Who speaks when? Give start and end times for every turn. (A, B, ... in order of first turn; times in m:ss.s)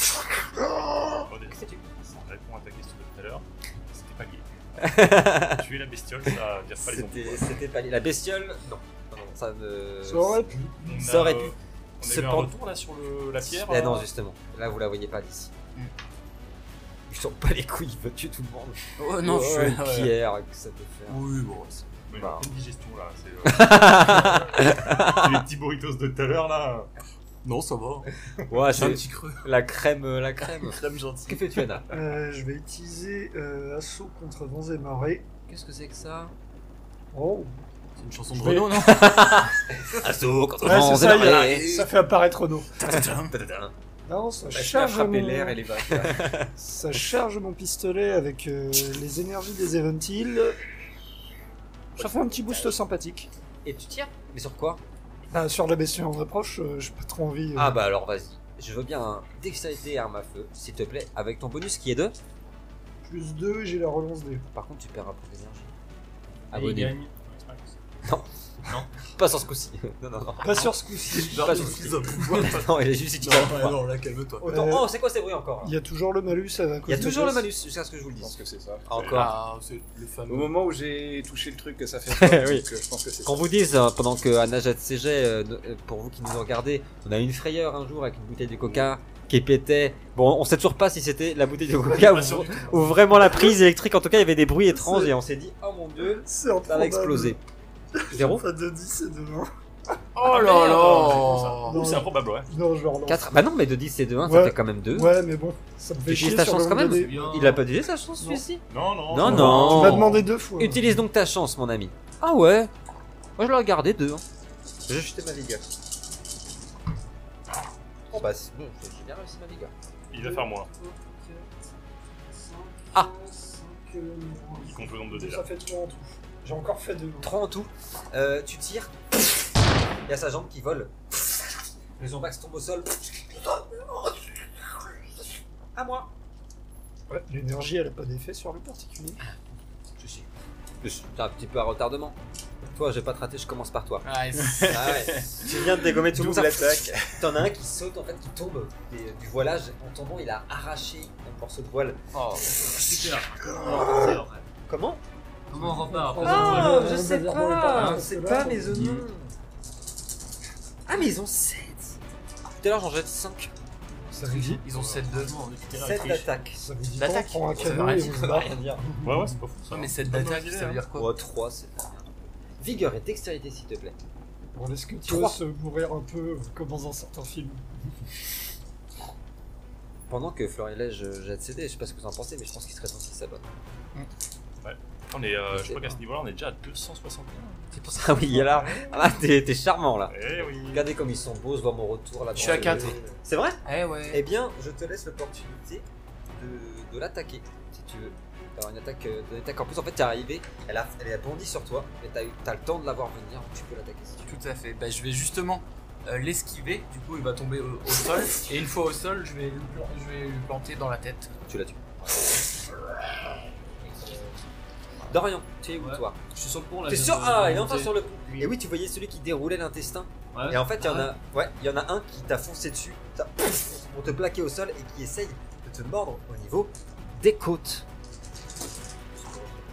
0:00.7-0:01.8 A
0:01.3-0:04.5 B
0:04.8-0:05.6 A
0:05.4-0:07.6 B
0:06.8-0:12.5 A
0:10.0-0:10.7 C
0:10.8-0:14.1 B
0:13.4-0:15.5 A
0:17.1-0:21.2 A
0:19.0-0:20.2 D
0:21.1-0:21.8 D
0:22.1-0:26.9 B
0:22.1-0:22.5 A
0:23.4-0:25.4 A
0:27.4-0:28.1 D
0:28.5-0:31.9 A
0:28.7-0:29.5 D
0:30.8-0:31.4 B
0:31.9-0:35.2 C
0:35.5-0:36.3 A
0:37.1-0:37.5 C
0:38.0-0:39.4 D
0:38.7-0:41.8 A
0:40.6-0:42.9 C
0:40.8-0:41.9 D
0:42.8-0:43.4 D
0:42.9-0:43.7 A
0:44.1-0:45.6 C
0:44.5-0:45.0 A
0:44.7-0:46.2 E
0:45.9-0:46.5 A
0:46.6-0:50.6 C
0:52.0-0:52.8 A
0:52.0-0:53.3 C
0:53.6-0:54.8 A
0:55.3-0:57.8 C
0:57.6-1:02.2 A
1:03.0-1:04.4 C
1:04.5-1:05.7 A
1:06.5-1:07.0 A
1:06.5-1:07.1 F
1:07.3-1:07.6 B
1:08.0-1:10.7 A
1:10.4-1:11.9 C
1:11.1-1:14.5 D
1:11.3-1:13.8 A
1:14.4-1:15.8 A
1:14.5-1:14.9 C
1:15.6-1:17.5 C
1:16.9-1:19.4 A
1:18.2-1:18.8 E
1:19.0-1:19.3 B
1:19.1-1:20.5 D
1:20.3-1:23.5 E
1:22.1-1:22.7 A
1:23.2-1:37.4 A
1:31.9-1:33.0 B
1:34.7-1:35.1 C
1:36.0-1:37.4 C
1:38.0-1:39.5 C
1:38.1-1:38.5 A
1:40.2-1:41.8 D
1:40.2-1:42.5 B
1:41.6-1:43.4 C
1:43.1-1:45.1 A
1:44.2-1:47.6 C
1:46.0-1:52.7 A
1:46.9-1:47.6 F
1:48.7-1:50.2 B
1:49.2-1:51.0 C
1:49.3-1:50.1 D
1:53.4-1:54.2 A
1:54.9-1:55.7 A
1:58.1-1:59.7 A
2:00.1-2:00.7 B
2:00.1-2:01.5 C
2:02.3-2:07.3 C
2:04.6-2:05.5 B
2:07.2-2:08.9 A
2:10.1-2:10.9 A
2:12.0-2:13.6 A
2:15.8-2:16.1 A
2:17.1-2:19.2 C
2:20.0-2:20.3 A
2:20.8-2:24.1 A
2:24.0-2:27.2 D
2:24.6-2:32.0 A
2:32.1-2:32.7 D
2:32.7-2:34.5 F
2:33.7-2:34.2 A
2:34.7-2:35.0 A
2:35.5-2:37.0 F
2:35.5-2:39.0 C
2:36.2-2:39.3 A
2:38.7-2:39.0 D
2:40.9-2:42.0 A
2:42.6-2:43.5 A
2:44.1-2:44.6 C
2:44.3-2:45.3 D
2:44.7-2:45.0 B
2:44.8-2:46.3 F
2:45.8-2:46.6 A
2:46.6-2:49.1 C
2:47.0-2:48.2 D
2:47.5-2:48.8 A
2:49.0-2:50.8 B
2:49.7-2:51.1 D
2:50.9-2:54.0 A
2:54.6-2:57.7 C
2:55.0-2:55.4 A
3:00.1-3:03.5 A
3:04.6-3:07.7 B
3:05.5-3:06.0 A
3:07.7-3:24.4 A
3:08.4-3:08.9 C
3:10.1-3:10.9 B
3:12.4-3:13.0 D
3:13.7-3:14.2 D
3:24.3-3:31.3 D
3:31.5-3:31.8 A
3:35.1-3:36.2 A
3:35.8-3:38.5 F
3:36.9-3:47.9 A
3:40.3-3:41.1 F
3:49.2-3:49.6 F